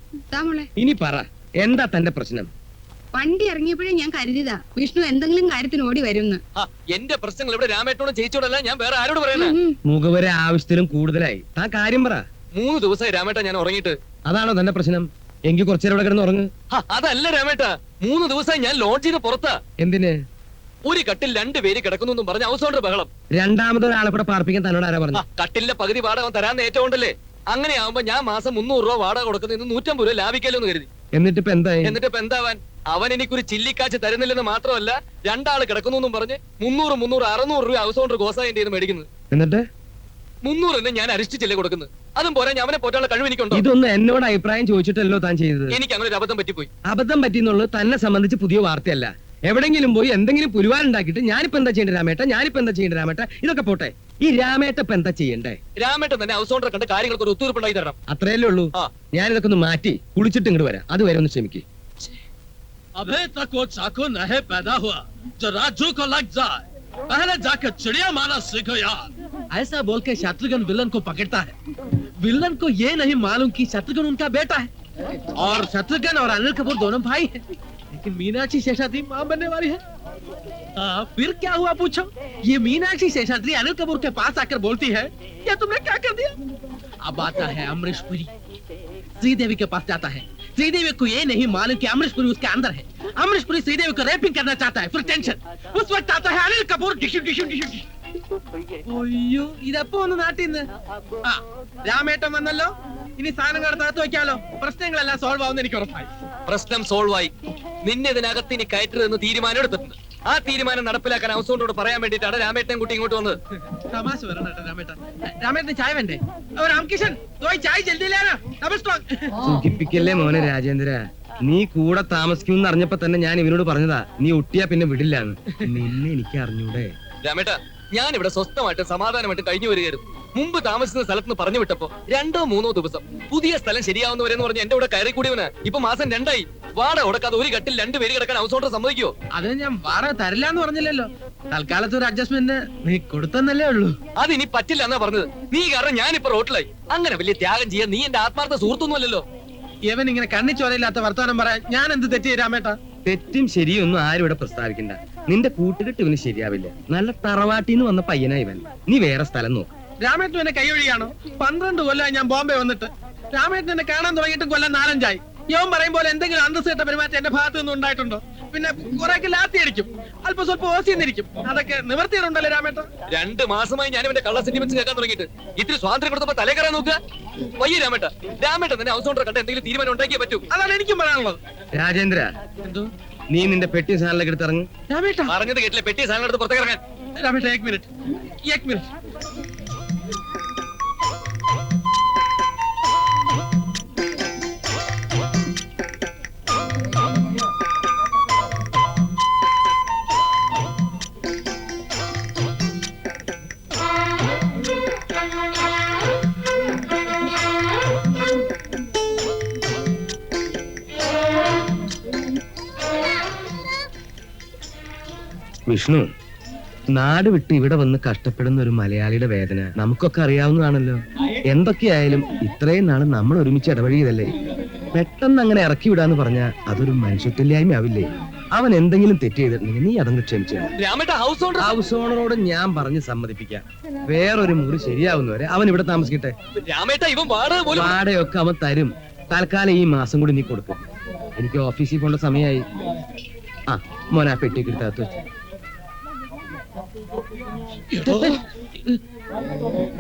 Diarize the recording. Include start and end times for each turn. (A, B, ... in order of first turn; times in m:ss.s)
0:00.3-0:00.6 A
0:00.8-0:02.5 B
0:03.2-0:06.4 A
0:06.6-0:09.6 C
0:09.4-0:09.7 A
0:09.8-0:12.2 B
0:12.5-0:14.0 C
0:14.2-0:16.5 B
0:16.7-0:19.6 C
0:19.8-0:20.2 B
0:20.8-0:23.1 C
0:23.3-0:25.2 B
0:25.1-0:30.9 C
0:31.1-0:32.0 B
0:31.8-0:39.0 C
0:39.3-0:39.6 B
0:40.4-0:43.6 C
0:43.5-0:45.8 B
0:45.7-0:46.7 C
0:46.8-0:55.6 B
0:55.8-0:58.0 C
0:58.1-1:01.6 B
1:03.0-1:11.5 D
1:12.2-1:14.7 D
1:15.4-1:19.8 D
1:20.8-1:26.3 D
1:27.0-1:28.3 D
1:29.2-1:37.8 D
1:38.8-1:40.7 D
1:41.2-1:46.1 D
1:46.5-1:47.3 C
1:47.8-1:53.4 C
1:53.9-1:59.3 D
1:59.4-2:06.9 B
2:07.2-2:19.1 C
2:19.3-2:23.9 D
2:24.2-2:29.2 C
2:29.9-2:32.8 D
2:33.0-2:39.7 B
2:40.0-2:52.9 D
2:53.1-2:57.0 C
2:57.6-3:00.4 C
3:00.5-3:01.4 D
3:01.7-3:02.3 B
3:02.6-3:02.9 D
3:03.3-3:04.7 B
3:04.9-3:05.3 D
3:05.3-3:06.8 C
3:07.2-3:07.9 D
3:08.4-3:08.8 D
3:35.7-3:36.1 B
3:36.9-3:44.3 B
3:44.9-3:50.7 B
3:50.8-3:51.7 C
3:51.6-3:56.3 B
3:56.7-3:58.0 C
3:57.7-4:00.8 B
4:01.4-4:02.6 B
4:03.7-4:05.2 B
4:08.0-4:08.4 D
4:08.1-4:08.4 C